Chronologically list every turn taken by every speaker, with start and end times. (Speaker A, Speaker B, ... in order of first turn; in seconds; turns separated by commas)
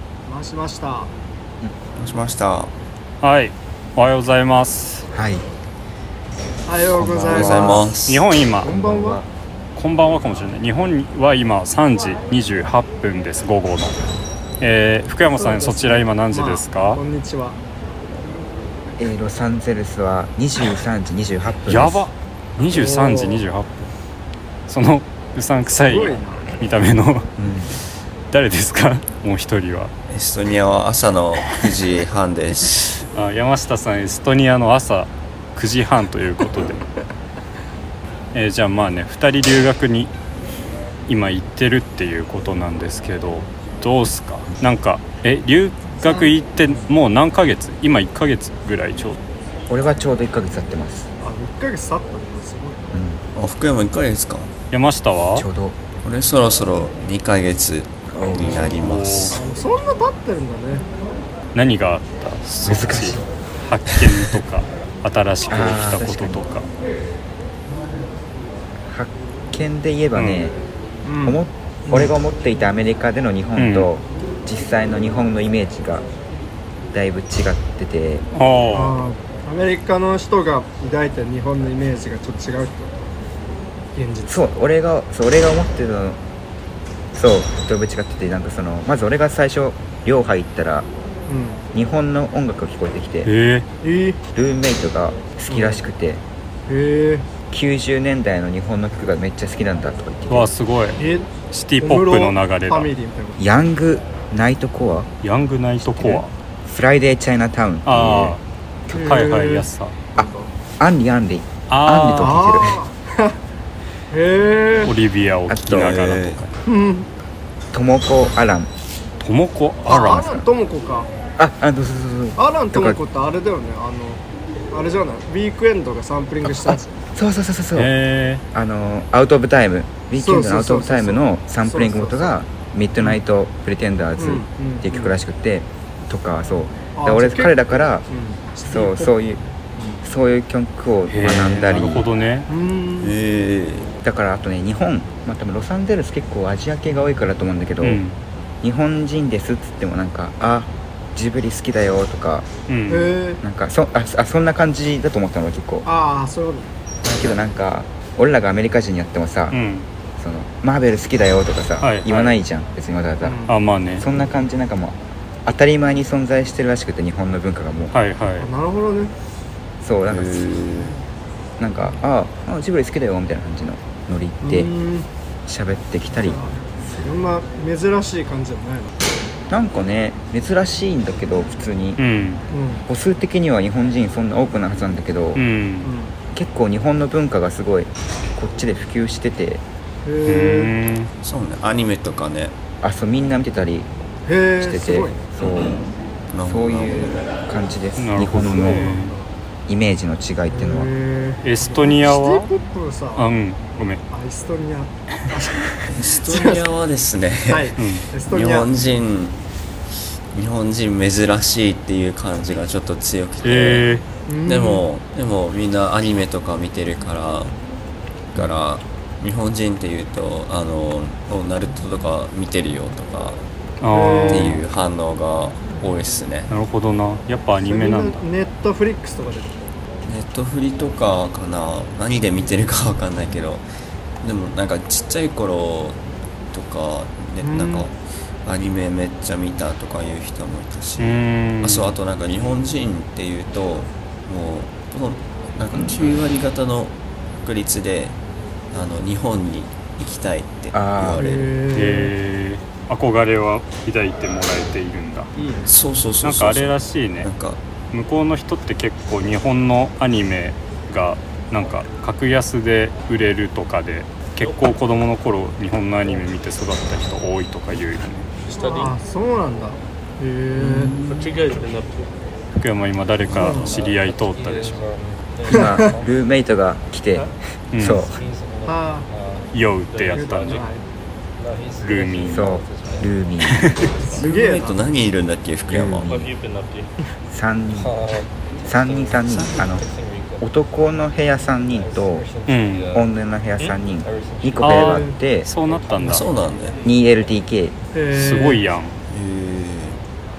Speaker A: 0.2-1.1, Speaker B: 1.9-2.7, Speaker C: 3.2-5.1, Speaker D: 5.1-5.4, Speaker A: 6.7-7.9, Speaker D: 7.0-8.0, Speaker B: 7.0-8.3, Speaker C: 8.1-8.7, Speaker A: 8.6-9.2, Speaker D: 8.6-9.2, Speaker C: 9.8-14.0, Speaker C: 14.6-17.0, Speaker A: 15.3-17.6, Speaker D: 19.0-22.1, Speaker C: 21.7-23.9, Speaker A: 22.7-23.4, Speaker C: 24.7-27.3, Speaker E: 25.7-26.7, Speaker A: 25.8-26.5, Speaker D: 27.4-27.7, Speaker C: 28.3-29.9, Speaker B: 30.1-33.0, Speaker C: 33.0-36.9, Speaker C: 38.3-40.1, Speaker C: 41.1-49.2, Speaker A: 46.0-46.3, Speaker D: 49.7-51.1, Speaker A: 51.2-52.9, Speaker D: 52.9-53.2, Speaker B: 53.3-54.5, Speaker C: 54.7-55.5, Speaker D: 55.3-55.8, Speaker B: 56.0-59.4, Speaker D: 58.1-58.8, Speaker C: 58.6-59.4, Speaker A: 59.4-60.9, Speaker C: 61.5-66.7, Speaker D: 62.6-63.3, Speaker D: 65.5-66.4, Speaker D: 68.9-70.5, Speaker C: 70.1-70.4, Speaker A: 71.0-72.1, Speaker D: 71.2-76.0, Speaker C: 73.6-73.9, Speaker D: 76.9-78.2, Speaker C: 78.3-79.0, Speaker A: 78.7-83.1, Speaker A: 83.9-84.5, Speaker D: 84.3-86.2, Speaker D: 87.1-90.9, Speaker A: 91.3-91.6, Speaker D: 91.7-93.3, Speaker C: 93.2-93.7, Speaker A: 93.8-94.2, Speaker D: 94.3-96.2, Speaker A: 95.5-95.8, Speaker A: 96.7-97.2, Speaker D: 97.5-100.5, Speaker C: 100.3-101.0, Speaker A: 101.0-101.3, Speaker C: 101.5-102.9, Speaker A: 101.8-103.4, Speaker D: 103.4-105.1, Speaker C: 105.2-106.3, Speaker D: 105.8-109.1, Speaker C: 107.8-108.4, Speaker A: 108.9-110.5, Speaker C: 109.0-109.9, Speaker D: 110.8-112.8, Speaker C: 111.7-112.7, Speaker A: 112.2-113.4, Speaker A: 114.1-114.9, Speaker C: 114.8-116.5, Speaker D: 115.5-116.0, Speaker B: 115.7-116.4, Speaker A: 116.7-117.1, Speaker D: 117.7-118.7, Speaker C: 119.2-120.3, Speaker A: 119.8-121.1, Speaker D: 120.2-120.4, Speaker D: 121.4-123.0, Speaker A: 122.4-126.9, Speaker D: 126.4-127.9, Speaker C: 127.7-128.4, Speaker D: 128.5-138.0, Speaker A: 130.1-132.4, Speaker A: 134.2-135.2, Speaker A: 136.9-139.1, Speaker D: 138.6-139.4, Speaker D: 140.0-142.1, Speaker C: 141.1-142.5, Speaker A: 142.5-143.1, Speaker B: 143.0-143.9, Speaker D: 144.0-148.0, Speaker C: 147.8-148.1, Speaker D: 148.6-152.5, Speaker C: 152.7-153.1, Speaker A: 152.9-153.4, Speaker D: 153.4-155.8, Speaker A: 155.8-157.2, Speaker D: 157.1-159.6, Speaker C: 159.5-159.9, Speaker D: 160.2-163.4, Speaker C: 161.8-162.4, Speaker A: 163.2-163.6, Speaker C: 163.5-164.1, Speaker D: 164.0-167.9, Speaker C: 167.9-168.5, Speaker A: 168.4-169.1, Speaker D: 169.8-170.4, Speaker B: 170.1-170.9, Speaker D: 171.6-174.7, Speaker A: 174.4-175.1, Speaker D: 175.5-177.1, Speaker A: 176.2-179.1, Speaker D: 179.5-182.0, Speaker C: 182.0-182.4, Speaker A: 182.5-182.8, Speaker D: 182.9-185.4, Speaker C: 185.3-185.9, Speaker A: 185.8-186.1, Speaker D: 186.3-189.6, Speaker A: 190.0-190.7, Speaker C: 190.3-191.1, Speaker B: 191.2-192.6, Speaker D: 192.8-193.9, Speaker A: 194.2-195.2, Speaker D: 194.6-195.8, Speaker B: 195.4-197.3, Speaker D: 196.4-198.9, Speaker C: 198.0-199.1, Speaker A: 198.4-199.3, Speaker D: 199.7-200.9, Speaker A: 200.5-203.3, Speaker C: 201.4-202.5, Speaker C: 203.2-204.0, Speaker A: 204.1-206.6, Speaker B: 205.9-209.4, Speaker A: 207.5-208.7, Speaker C: 207.8-208.1, Speaker B: 210.3-213.9, Speaker C: 213.4-214.0, Speaker A: 214.3-214.8, Speaker B: 214.4-217.5, Speaker B: 218.3-223.4, Speaker C: 223.8-224.6, Speaker A: 223.9-224.6, Speaker B: 224.3-226.5, Speaker C: 226.5-228.2, Speaker A: 227.6-229.7, Speaker B: 230.1-233.6, Speaker B: 234.2-236.0, Speaker B: 236.5-248.1, Speaker A: 237.4-237.9, Speaker C: 241.0-241.9, Speaker D: 245.7-246.2, Speaker B: 248.7-251.5, Speaker D: 250.7-251.2, Speaker A: 251.2-252.1, Speaker C: 251.7-255.3, Speaker A: 255.3-255.7, Speaker B: 255.6-257.6, Speaker C: 256.2-257.3, Speaker C: 257.9-268.2, Speaker E: 264.4-264.6, Speaker E: 268.4-268.9, Speaker A: 268.6-270.9, Speaker C: 270.7-271.2, Speaker E: 270.9-272.1, Speaker C: 272.6-274.8, Speaker E: 273.3-276.1, Speaker A: 273.3-273.7, Speaker D: 275.5-278.2, Speaker A: 275.5-275.9, Speaker E: 277.1-280.7, Speaker C: 277.7-278.0, Speaker A: 278.6-279.1, Speaker C: 279.5-280.6, Speaker A: 280.1-280.8, Speaker E: 281.4-284.3, Speaker C: 281.8-282.5, Speaker D: 282.2-283.7, Speaker C: 283.5-283.9, Speaker A: 284.0-284.8, Speaker B: 284.1-286.0, Speaker D: 285.7-286.3, Speaker E: 286.0-286.9, Speaker D: 287.3-287.9, Speaker E: 287.8-290.4, Speaker D: 288.6-289.8, Speaker B: 289.3-289.6, Speaker D: 290.4-292.3, Speaker E: 291.7-294.9, Speaker C: 292.5-292.9, Speaker D: 292.9-295.5, Speaker A: 294.6-295.2, Speaker C: 294.6-296.3, Speaker E: 295.6-296.8, Speaker B: 296.0-296.8, Speaker D: 296.8-297.7, Speaker A: 297.9-298.6, Speaker C: 298.1-298.9, Speaker B: 299.1-300.0